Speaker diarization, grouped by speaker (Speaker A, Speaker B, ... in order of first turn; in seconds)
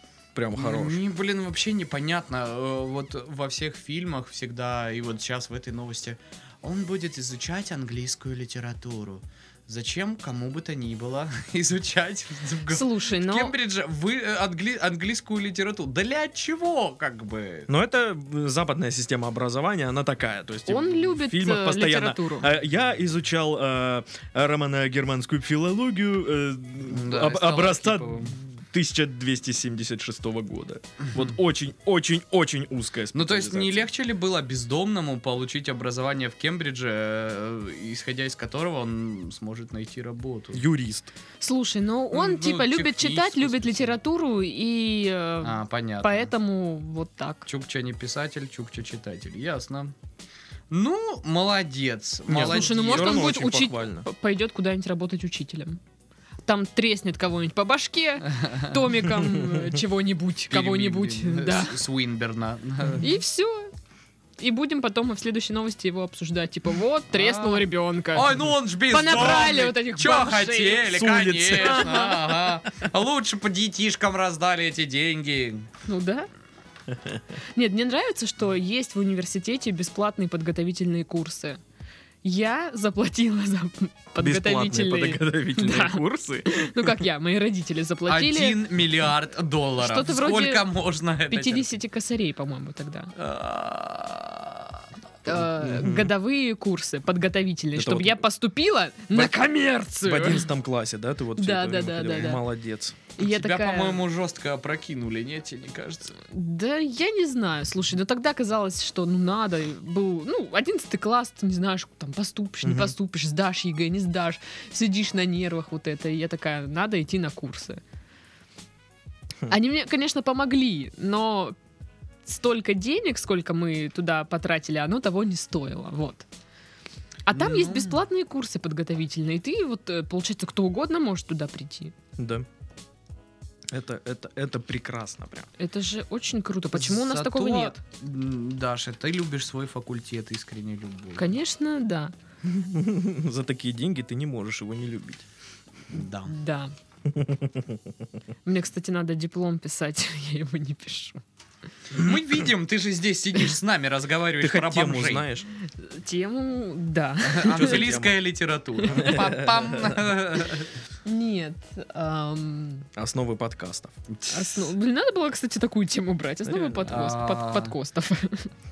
Speaker A: 0.3-1.0, 17.7-33.9, 40.5-41.1, 52.3-54.0, 59.2-59.7, 69.1-69.5, 70.8-72.1, 76.9-77.2, 84.2-86.9, 95.3-96.1, 97.7-98.2, 99.1-99.4, 100.0-103.0, 112.6-112.9, 132.2-132.4, 133.7-135.5, 142.4-145.2, 147.1-147.9, 154.4-155.5, 157.4-158.2, 158.9-160.0, 162.9-164.0, 166.4-167.1
Speaker B: 0.5-17.7, 26.9-28.3, 31.0-31.3, 33.1-40.6, 42.1-43.9, 45.4-46.3, 47.5-49.9, 50.7-53.4, 58.4-58.7, 60.5-63.1, 67.1-75.7, 88.1-91.8, 93.2-94.8, 103.2-106.2, 127.3-128.0, 136.7-141.4, 145.9-146.3, 151.9-155.3, 157.3-160.7, 164.1-164.7, 166.9-167.7
Speaker C: 12.7-13.5, 20.7-22.5, 41.4-47.5, 52.3-55.8, 56.5-61.8, 63.0-63.7, 64.4-68.3, 68.9-70.9, 71.6-72.3, 75.8-76.3, 77.5-81.6, 82.2-88.6, 89.8-90.6, 91.3-93.1, 95.2-100.5, 101.4-102.4, 103.2-104.0, 106.2-117.8, 119.5-121.5, 122.2-126.2, 127.3-131.9, 135.6-137.8, 141.2-142.1, 146.3-146.7, 148.4-151.2, 155.8-157.8, 158.8-159.3, 161.0-162.9, 164.3-168.5